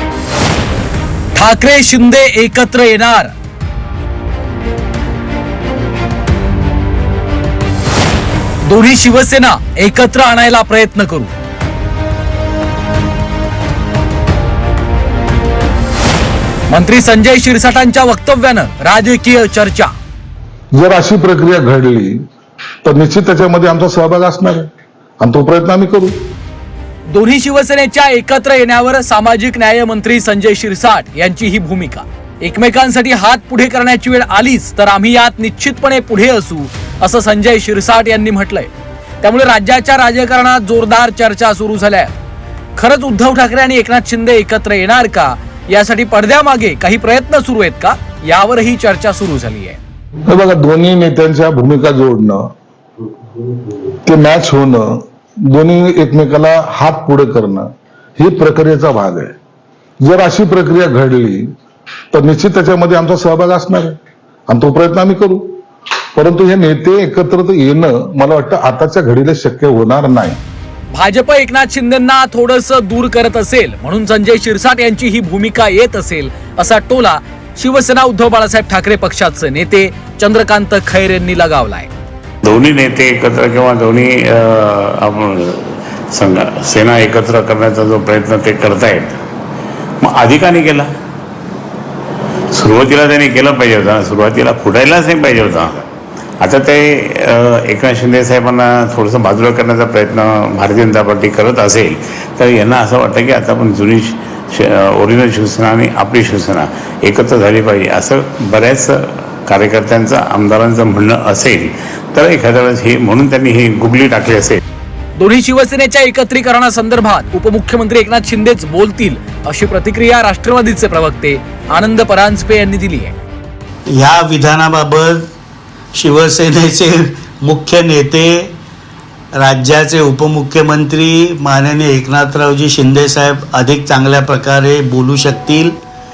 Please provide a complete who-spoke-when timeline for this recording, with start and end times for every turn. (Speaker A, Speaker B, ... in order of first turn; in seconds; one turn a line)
Speaker A: 1.4-3.3
Speaker A: 8.6-11.3
Speaker A: 16.7-19.9
Speaker B: 20.7-22.2
Speaker B: 22.8-24.7
Speaker B: 25.2-26.2
Speaker A: 27.1-38.7
Speaker A: 39.2-42.1
Speaker A: 42.8-49.8
Speaker B: 50.3-52.5
Speaker B: 54.0-59.4
Speaker B: 60.0-61.5
Speaker B: 62.1-64.0
Speaker B: 64.5-65.6
Speaker B: 66.2-70.4
Speaker A: 70.9-81.9
Speaker C: 82.5-89.1
Speaker C: 90.0-90.9
Speaker C: 92.5-95.8
Speaker C: 96.4-114.6
Speaker A: 115.2-123.2
Speaker D: 123.9-125.3
Speaker D: 125.9-128.5
Speaker D: 129.4-135.8